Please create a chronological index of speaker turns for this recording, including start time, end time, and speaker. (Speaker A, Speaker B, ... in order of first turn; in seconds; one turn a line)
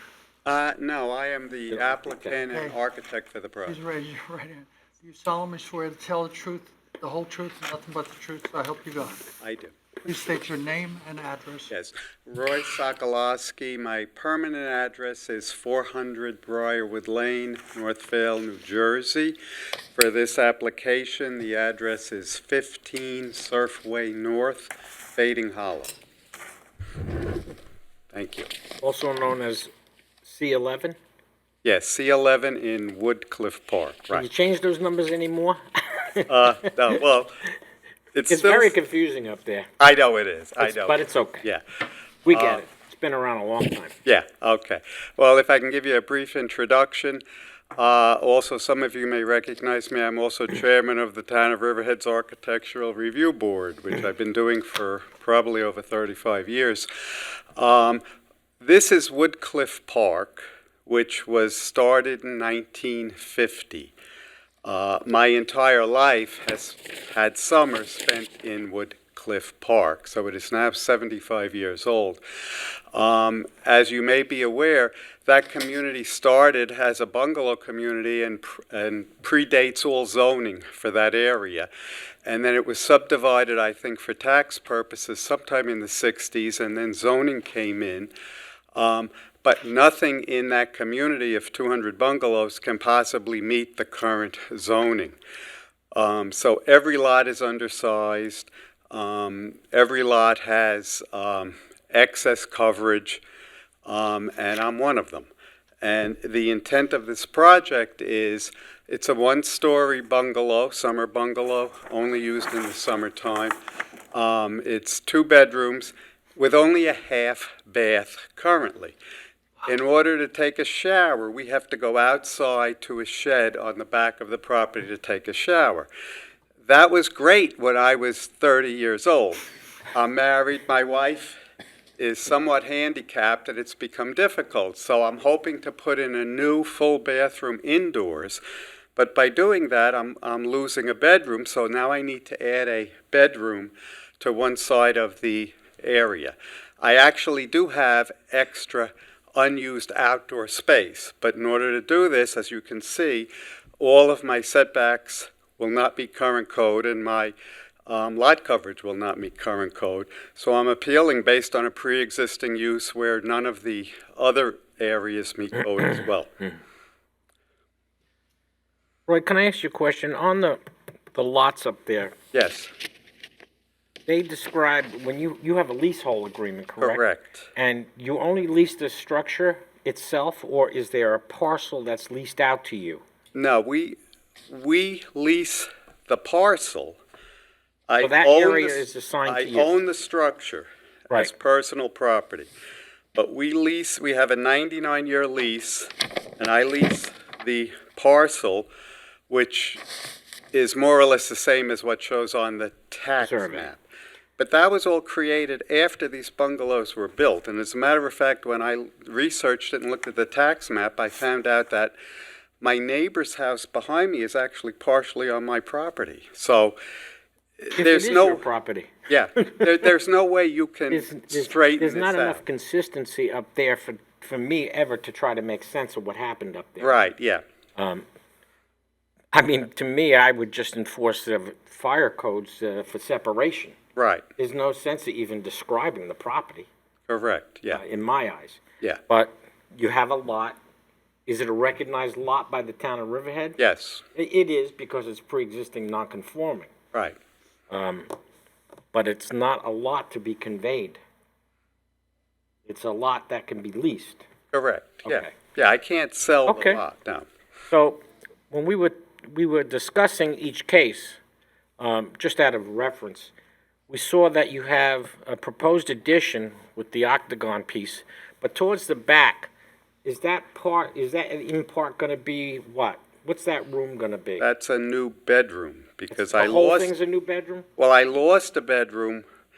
Speaker A: 0.4-3.8
Speaker B: 1.7-2.4
Speaker C: 3.6-9.3
Speaker A: 9.4-9.7
Speaker C: 10.0-11.7
Speaker A: 11.7-19.4
Speaker A: 19.9-25.9
Speaker A: 28.1-28.5
Speaker B: 28.8-29.7
Speaker B: 30.2-31.0
Speaker A: 31.6-34.3
Speaker B: 34.1-37.0
Speaker A: 36.3-37.3
Speaker A: 38.1-38.7
Speaker B: 38.3-39.7
Speaker A: 39.8-41.6
Speaker B: 40.6-41.5
Speaker B: 42.2-44.0
Speaker A: 42.3-42.6
Speaker A: 44.0-47.2
Speaker A: 47.8-56.9
Speaker A: 57.5-58.0
Speaker A: 58.6-63.9
Speaker A: 64.6-72.2
Speaker A: 72.9-81.7
Speaker A: 82.2-88.1
Speaker A: 88.7-95.2
Speaker A: 95.9-103.2
Speaker A: 103.8-105.3
Speaker A: 105.8-113.6
Speaker A: 114.1-119.0
Speaker A: 119.6-125.9
Speaker A: 126.6-131.4
Speaker A: 132.0-138.4
Speaker A: 138.9-153.3
Speaker A: 153.8-157.3
Speaker A: 157.9-166.3
Speaker B: 169.1-170.6
Speaker B: 171.1-172.1
Speaker A: 172.3-172.7
Speaker B: 174.1-177.0
Speaker A: 176.8-177.5
Speaker B: 177.5-183.0
Speaker A: 183.3-184.0
Speaker A: 184.5-187.0
Speaker A: 187.9-192.5
Speaker B: 188.0-189.7
Speaker A: 193.1-198.7
Speaker A: 199.3-199.8
Speaker A: 200.5-203.8
Speaker B: 203.2-203.7
Speaker A: 204.4-211.9
Speaker A: 212.6-216.8
Speaker A: 217.6-218.4
Speaker B: 217.7-218.9
Speaker A: 219.1-222.4
Speaker B: 220.9-227.0
Speaker A: 226.8-227.4
Speaker B: 227.8-228.0
Speaker B: 229.3-233.8
Speaker A: 233.9-234.2
Speaker B: 234.4-236.7
Speaker A: 237.1-237.8
Speaker B: 237.7-240.6
Speaker B: 241.2-243.6
Speaker A: 243.6-244.0
Speaker B: 244.1-246.7
Speaker B: 247.7-248.1
Speaker B: 248.9-251.0
Speaker B: 252.7-254.2
Speaker A: 254.5-257.3
Speaker B: 255.0-255.3
Speaker B: 256.5-256.8
Speaker B: 257.7-261.2
Speaker B: 261.8-263.3
Speaker B: 263.9-269.5
Speaker B: 270.0-274.4
Speaker A: 274.4-276.9
Speaker B: 276.1-277.7
Speaker A: 277.8-279.2